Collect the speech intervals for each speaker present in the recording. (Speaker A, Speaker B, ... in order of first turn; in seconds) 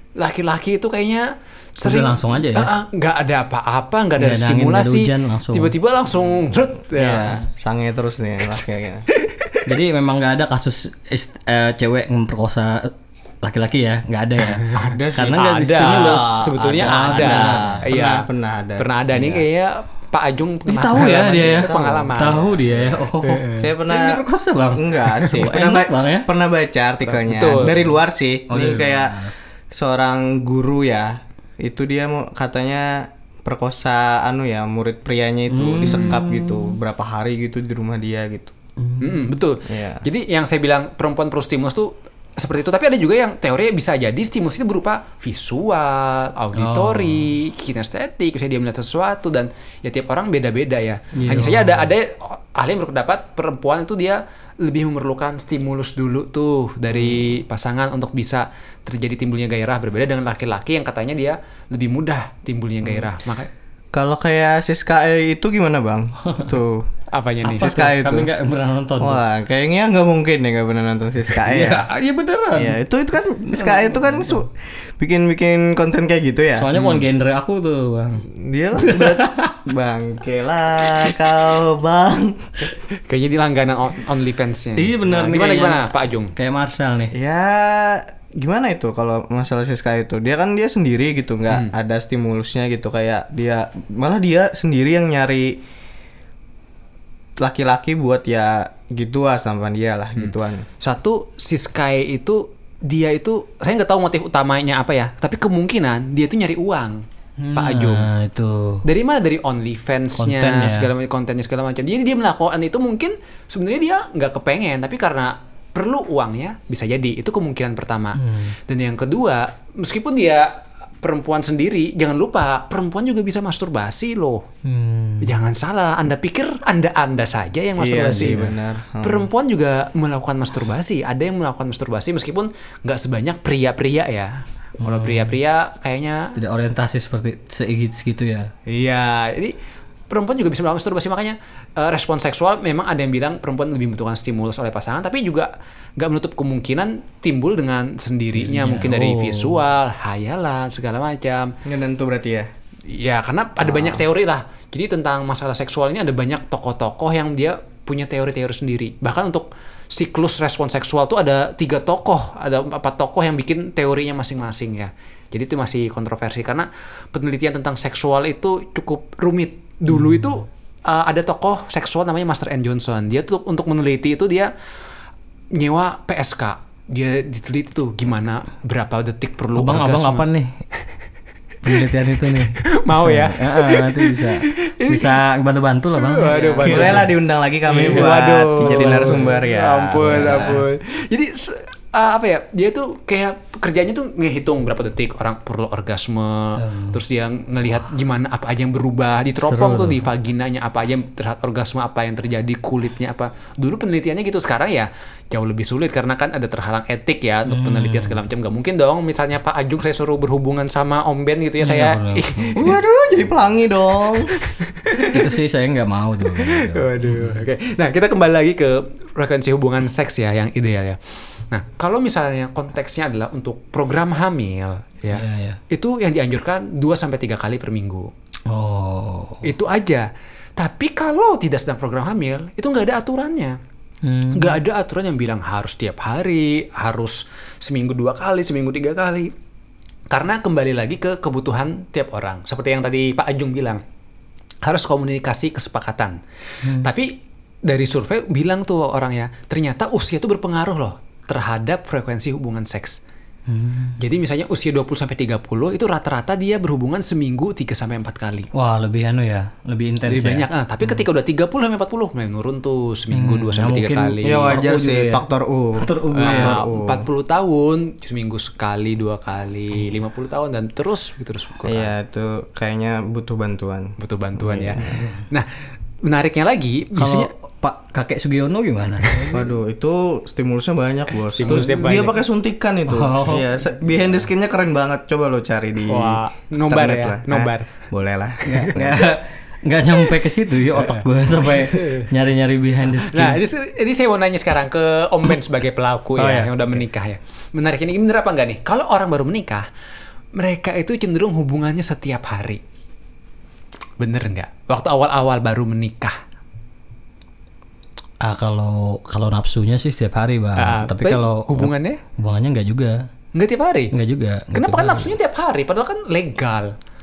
Speaker A: 0.2-1.2, 1.8-7.4, 14.6-22.5, 23.2-23.7, 27.0-27.9, 35.8-36.3, 39.0-63.5, 67.1-67.7, 76.7-77.1, 83.1-86.3, 100.2-107.0, 107.5-108.1, 108.8-124.4, 125.2-134.3, 134.8-136.4, 138.7-139.5, 140.1-151.5, 152.9-174.5, 175.5-180.3, 182.7-185.1, 186.0-187.1, 187.7-212.7, 214.4-215.2, 216.3-221.0, 221.5-228.1, 229.4-230.1, 230.6-233.6, 234.3-239.3, 240.1-243.8, 244.6-246.2, 246.7-247.1, 247.7-253.0, 254.0-258.5, 260.1-264.5, 266.1-271.9, 274.0-275.5, 276.0-277.3, 281.2-282.2, 285.9-287.7, 288.4-288.7, 290.7-292.1, 293.0-299.6, 300.4-302.6, 304.0-306.1, 310.6-312.0, 313.3-313.9, 314.5-316.7
Speaker B: 1.8-2.7, 4.2-5.7, 9.7-12.9, 13.4-17.9, 20.7-26.3, 28.5-29.3, 35.5-36.8, 38.8-39.3, 46.5-47.3, 51.1-51.9, 67.5-69.2, 71.3-72.8, 73.6-74.4, 76.5-79.5, 84.8-87.1, 107.4-108.8, 110.1-110.9, 118.1-118.5, 124.6-125.3, 128.0-128.6, 134.8-135.3, 136.3-138.5, 148.3-149.6, 169.9-170.3, 179.5-180.5, 181.6-187.1, 187.7-189.4, 190.0-190.7, 196.6-197.0, 199.4-200.1, 207.5-208.2, 211.6-212.8, 215.1-217.4, 225.1-225.6, 228.5-229.4, 234.0-234.6, 246.6-246.9, 253.5-254.0, 258.5-261.0, 263.1-266.6, 276.9-279.2, 281.4-282.0, 282.9-283.4, 288.5-293.4, 296.1-296.8, 308.2-312.9, 313.9-315.1
Speaker C: 7.0-9.1, 14.9-19.4, 21.6-22.9, 23.6-24.2, 24.8-29.2, 29.7-38.5, 39.7-40.0, 63.9-66.9, 67.4-68.3, 69.0-71.8, 72.6-76.7, 78.4-82.4, 87.1-95.6, 97.4-100.7, 127.8-129.2, 151.6-152.5, 186.7-190.6, 212.6-214.3, 264.2-267.0, 271.6-274.9, 279.3-289.0